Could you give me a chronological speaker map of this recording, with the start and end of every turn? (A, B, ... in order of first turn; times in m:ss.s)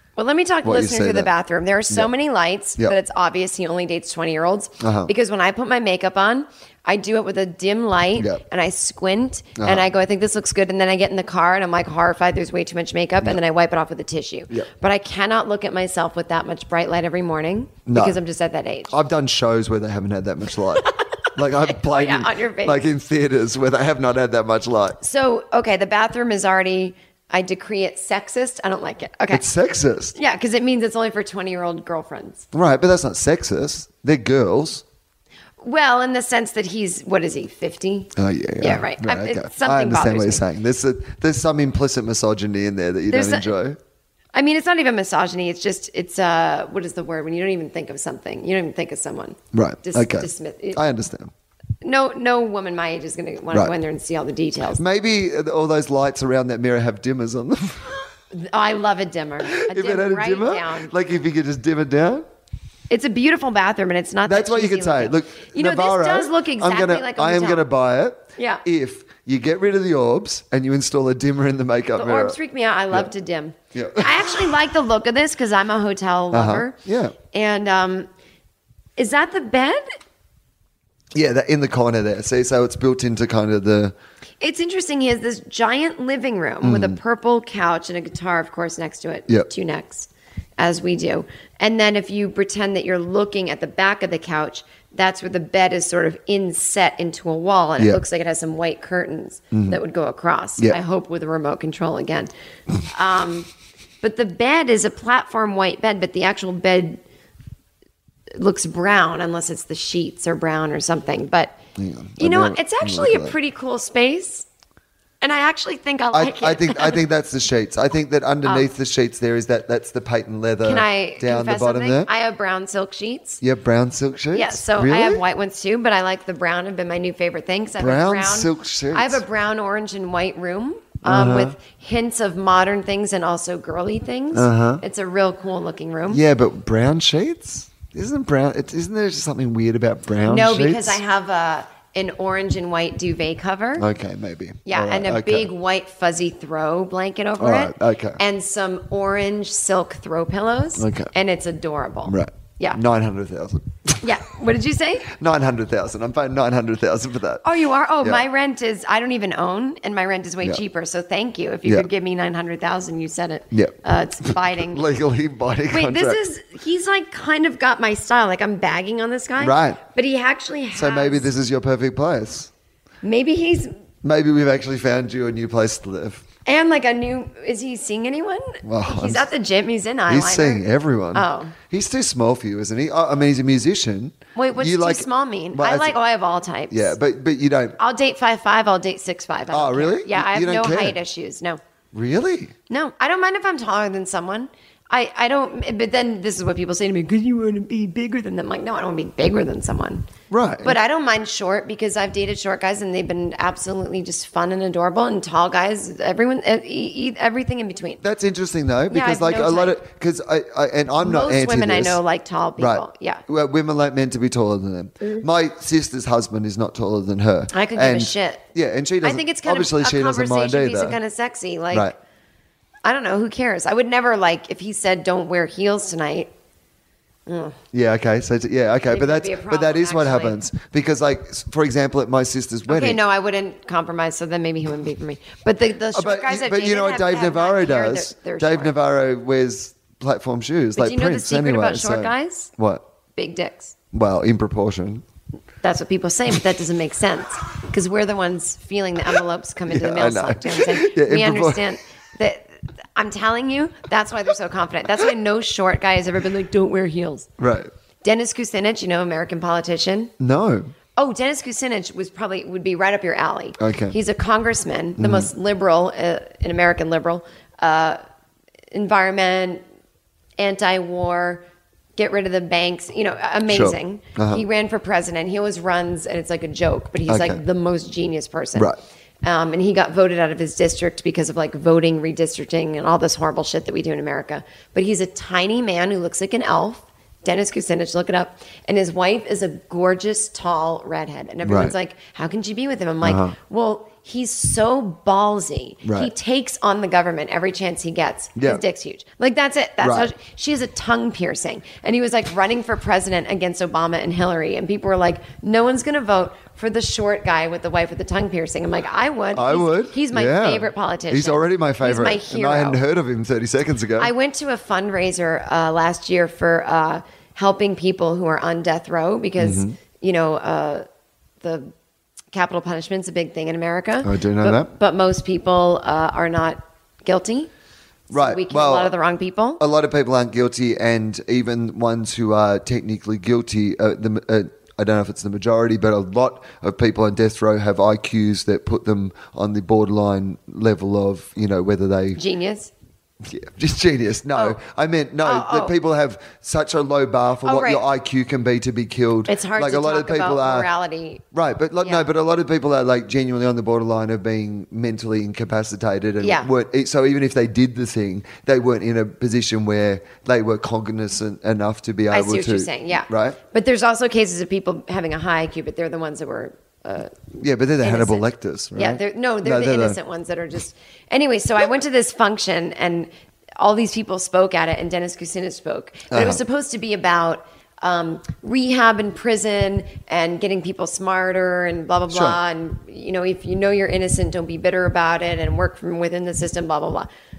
0:00.2-0:18.9 A
0:00.6-0:01.3 B
0:04.8-0:05.1 B
0:08.2-0:08.4 B
0:09.6-0:09.9 B
0:17.9-0:18.2 B
0:18.9-0:25.0 B
0:20.9-0:22.8 A
0:25.0-0:29.4 A
0:29.3-0:30.2 B
0:30.2-0:32.5 A
0:32.5-0:34.8 B
0:35.6-0:40.4 A
0:38.2-0:43.8 B
0:43.1-0:43.5 A
0:44.3-0:50.8 A
0:49.5-0:51.3 B
0:51.8-0:54.8 A
0:54.8-0:58.0 B
0:58.3-1:00.9 A
0:59.5-1:02.2 B
1:02.9-1:07.7 A
1:04.3-1:12.4 B
1:08.4-1:08.6 A
1:12.0-1:16.8 A
1:13.7-1:14.5 B
1:16.3-1:17.2 B
1:17.3-1:18.1 A
1:19.0-1:19.8 A
1:21.2-1:24.0 B
1:24.4-1:42.3 A
1:26.6-1:27.0 B
1:39.5-1:39.8 B
1:42.8-1:43.5 A
1:44.0-1:47.0 A
1:48.4-1:51.6 A
1:51.8-1:53.4 B
1:52.2-1:54.5 A
1:55.2-1:57.0 A
1:56.1-2:02.1 B
2:00.6-2:03.4 A
2:03.4-2:05.2 B
2:04.3-2:16.2 A
2:07.8-2:09.2 B
2:11.0-2:11.6 B
2:14.3-2:14.8 B
2:16.1-2:21.0 B
2:20.2-2:23.9 A
2:23.8-2:25.5 B
2:24.6-2:32.8 A
2:27.4-2:28.2 B
2:30.8-2:31.1 B
2:32.1-2:34.1 B
2:34.0-2:35.1 A
2:35.1-2:37.5 B
2:37.4-2:44.9 A
2:43.5-2:46.2 B
2:45.7-2:51.3 A
2:49.4-2:49.8 B
2:50.8-2:52.5 B
2:53.0-2:53.7 A
2:54.0-2:56.2 B
2:56.5-3:01.6 A
2:58.6-2:59.3 B
3:00.1-3:06.0 B
3:04.4-3:07.0 A
3:06.7-3:07.8 B
3:07.8-3:11.6 A
3:09.5-3:11.0 B
3:11.9-3:12.5 B
3:12.7-3:20.1 A
3:20.3-3:20.8 B
3:20.6-3:28.0 A
3:28.0-3:32.0 B
3:28.9-3:29.8 A
3:31.0-3:33.2 A
3:32.6-3:41.0 B
3:37.5-3:38.4 A
3:39.0-3:41.9 A
3:42.8-3:46.3 A
3:47.3-3:47.6 A
3:47.7-3:53.0 B
3:48.9-3:50.4 A
3:52.7-3:58.7 A
3:55.9-4:02.8 B
4:00.8-4:02.5 A
4:03.2-4:03.8 A
4:03.9-4:05.0 B
4:05.6-4:17.3 A
4:09.7-4:11.7 B
4:17.4-4:17.7 B
4:18.0-4:20.1 A
4:20.2-4:20.7 B
4:21.0-4:28.0 A
4:23.6-4:24.0 B
4:25.0-4:25.3 B
4:28.7-4:29.6 A
4:30.4-4:31.4 A
4:32.0-5:12.8 A
4:33.5-4:34.4 B
4:37.1-4:37.4 B
4:51.4-4:51.8 B
4:53.0-4:53.4 B
4:55.8-4:56.1 B
4:58.4-4:58.6 B
4:59.8-5:00.1 B
5:09.3-5:14.1 B
5:14.0-5:20.8 A
5:19.4-5:19.7 B
5:21.4-5:21.7 A
5:22.3-5:27.5 A
5:24.0-5:24.7 B
5:28.1-5:29.6 A
5:28.1-5:28.9 B
5:29.6-5:42.2 B
5:42.2-5:42.7 A
5:43.2-5:50.7 B
5:45.2-5:45.7 A
5:47.4-5:47.8 A
5:49.3-5:51.2 A
5:51.3-6:03.4 B
5:51.8-5:52.1 A
5:56.2-5:56.5 A
6:02.1-6:07.2 A
6:07.4-6:10.0 B
6:07.8-6:08.2 A
6:08.8-6:27.1 A
6:16.1-6:16.4 B
6:22.1-6:22.4 B